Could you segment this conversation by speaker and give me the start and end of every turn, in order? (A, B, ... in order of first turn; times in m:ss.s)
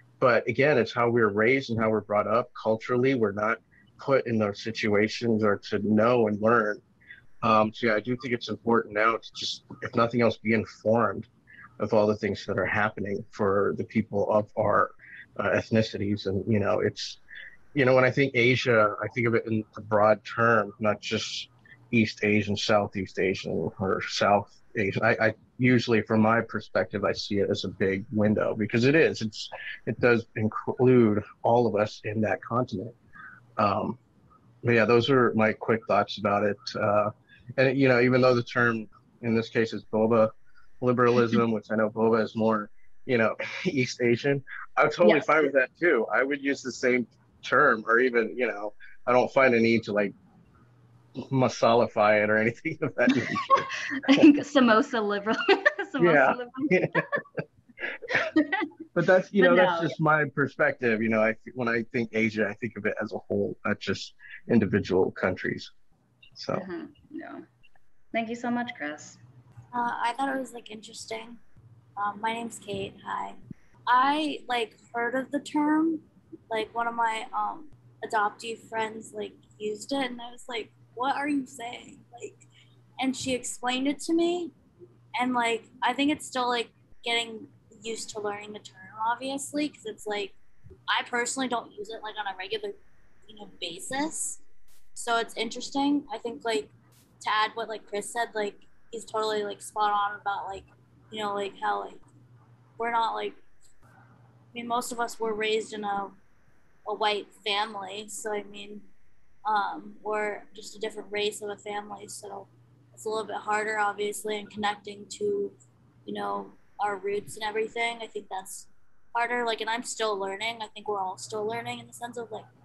0:00.2-0:06.8 A
0:07.4-0:11.3 A
0:11.8-0:17.2 A
0:17.7-0:33.0 A
0:33.6-0:34.0 A
0:34.6-0:50.1 A
0:45.0-0:45.4 B
0:51.2-0:54.2 A
0:53.5-0:57.2 B
0:56.0-0:57.0 A
0:58.2-0:58.6 B
0:58.9-1:05.7 A
0:59.4-0:59.9 B
1:06.4-1:06.6 A
1:06.5-1:07.4 B
1:08.1-1:09.2 B
1:09.7-1:11.4 C
1:12.0-1:22.4 C
1:23.0-1:24.5 C
1:25.1-1:30.3 C
1:30.9-1:32.8 C
1:33.3-1:34.4 C
1:35.0-1:42.0 C
1:42.8-1:43.4 C
1:44.5-1:46.2 C
1:46.8-1:48.8 C
1:49.4-2:02.5 C